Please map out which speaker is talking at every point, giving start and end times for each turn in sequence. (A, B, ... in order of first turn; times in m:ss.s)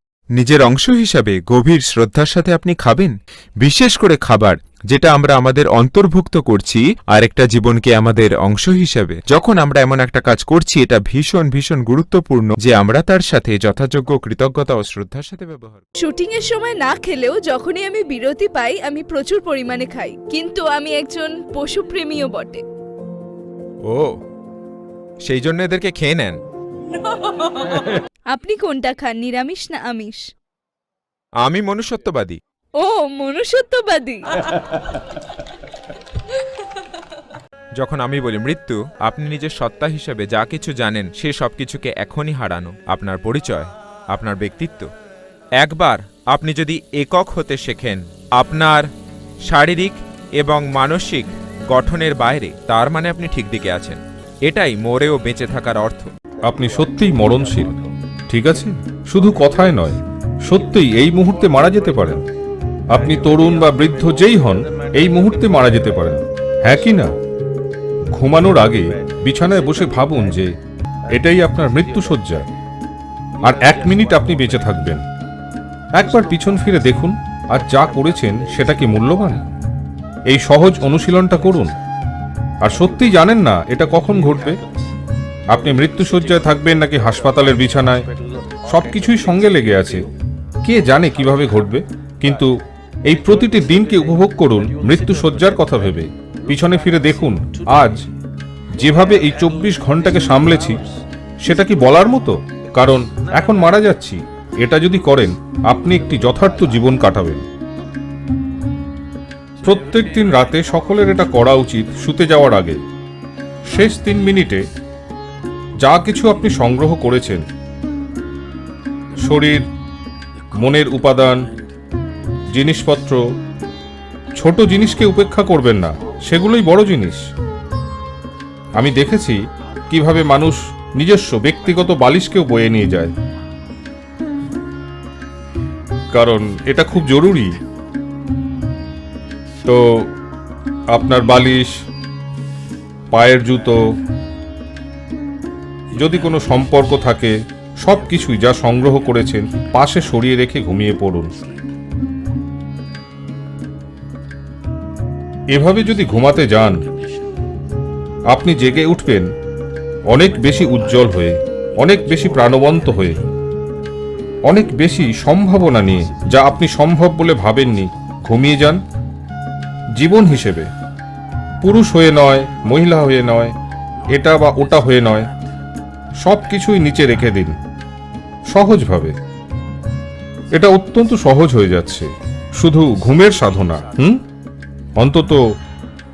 0:00.4-0:15.8 A
0:16.0-0:22.6 B
0:23.8-0:24.1 A
0:25.2-0:26.4 A
0:28.3-0:30.2 B
0:31.4-0:32.4 A
0:32.8-0:34.3 B
0:37.8-0:44.9 A
0:45.6-0:48.9 A
0:49.5-0:56.1 A
0:56.4-0:57.7 C
0:58.3-1:02.2 C
1:02.9-1:07.1 C
1:08.1-1:10.5 C
1:11.1-1:12.5 C
1:13.4-1:15.0 C
1:16.0-1:19.4 C
1:20.3-1:21.7 C
1:22.6-1:24.6 C
1:25.5-1:28.1 C
1:28.7-1:30.0 C
1:30.6-1:32.5 C
1:33.1-1:38.0 C
1:38.8-1:40.8 C
1:41.4-1:47.4 C
1:49.6-1:52.8 C
1:53.7-1:54.6 C
1:55.8-1:57.4 C
1:59.2-1:59.6 C
2:00.6-2:01.4 C
2:02.5-2:03.2 C
2:04.4-2:07.2 C
2:08.8-2:09.4 C
2:09.9-2:13.1 C
2:16.1-2:17.6 C
2:20.9-2:21.7 C
2:23.1-2:23.8 C
2:26.0-2:31.3 C
2:35.5-2:36.8 C
2:38.3-2:39.3 C
2:40.1-2:43.2 C
2:44.5-2:48.8 C
2:50.0-2:50.7 C
2:51.6-2:53.5 C
2:54.1-2:55.3 C
2:56.2-2:57.5 C
2:58.5-2:59.1 C
3:00.5-3:02.0 C
3:02.6-3:04.2 C
3:05.0-3:05.4 C